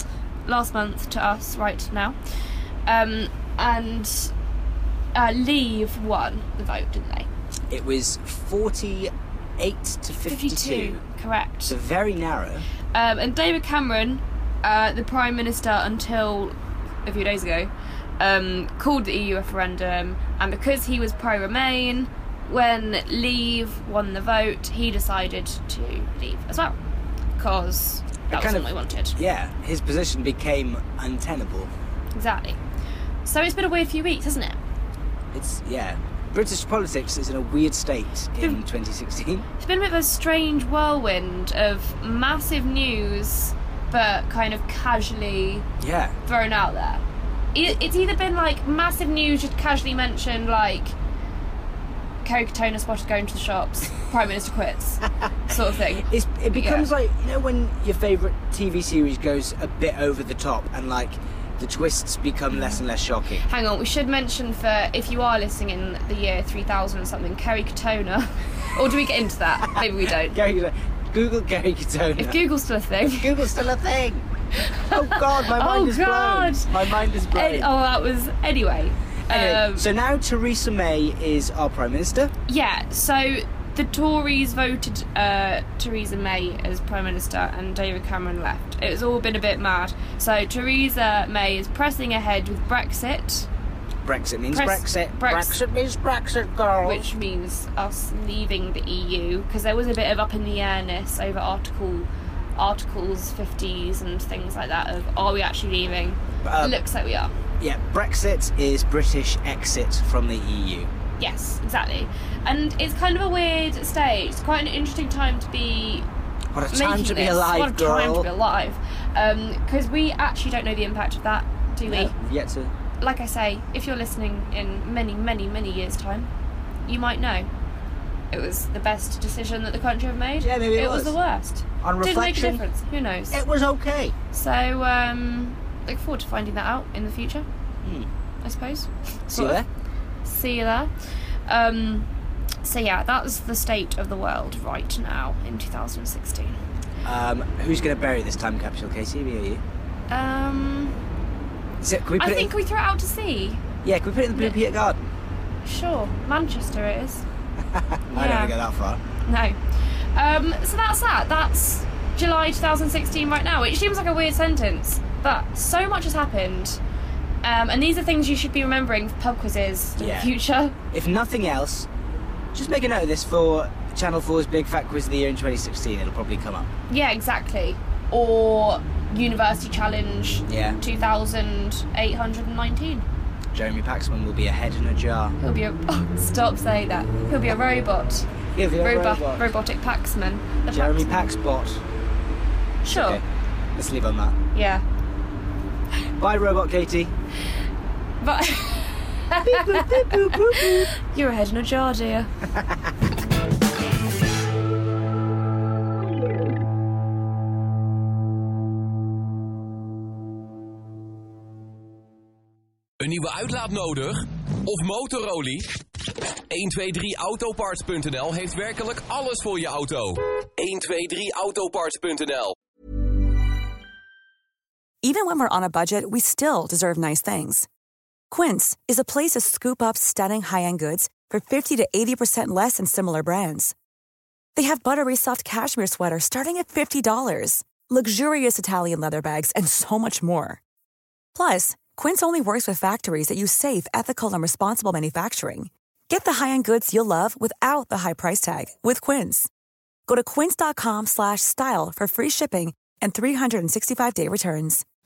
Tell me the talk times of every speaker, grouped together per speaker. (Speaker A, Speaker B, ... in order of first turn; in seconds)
Speaker A: 0.5-2.2, 2.9-4.3, 5.1-7.3, 10.3-11.8, 12.9-16.5, 17.1-26.8, 27.4-29.2, 32.1-32.6, 33.2-34.6, 39.6-45.7, 46.3-47.0, 47.5-51.0, 52.2-56.9, 63.4-70.4, 72.2-73.4, 74.7-76.7, 77.3-79.9, 82.5-93.5, 94.5-95.6, 96.8-107.3, 111.2-116.1, 116.7-122.1, 123.0-126.3, 126.9-127.5, 128.3-133.4, 134.3-137.5, 138.4-139.6, 140.2-140.9, 141.5-142.1, 142.6-146.6, 150.1-150.9, 152.2-153.6, 155.6-157.2, 158.1-158.6, 159.2-159.6, 160.2-166.8, 167.4-170.8, 176.9-183.1, 185.4-188.3, 188.8-191.2, 192.8-193.2, 194.5-194.8, 198.2-202.3
Speaker B: 7.7-11.0, 11.7-12.7, 28.3-31.7, 35.3-39.5, 45.8-46.1, 56.1-63.4, 70.3-72.4, 73.1-74.3, 74.9-77.7, 79.3-82.3, 94.0-97.1, 106.5-106.8, 107.6-110.9, 116.5-118.3, 121.8-122.7, 130.4-131.2, 131.8-132.6, 133.3-134.1, 139.3-139.7, 147.1-149.6, 151.8-152.5, 153.8-155.0, 157.8-159.0, 170.0-170.3, 170.9-171.9, 172.5-176.7, 180.5-180.8, 183.5-185.4, 188.6-189.5, 190.7-191.8, 192.9-193.2, 193.8-194.4, 196.2-197.1, 199.4-200.9
Speaker C: 213.0-215.7, 216.5-222.6
Speaker D: 225.0-227.7, 228.3-233.8, 234.6-240.6, 241.3-249.5, 250.1-254.8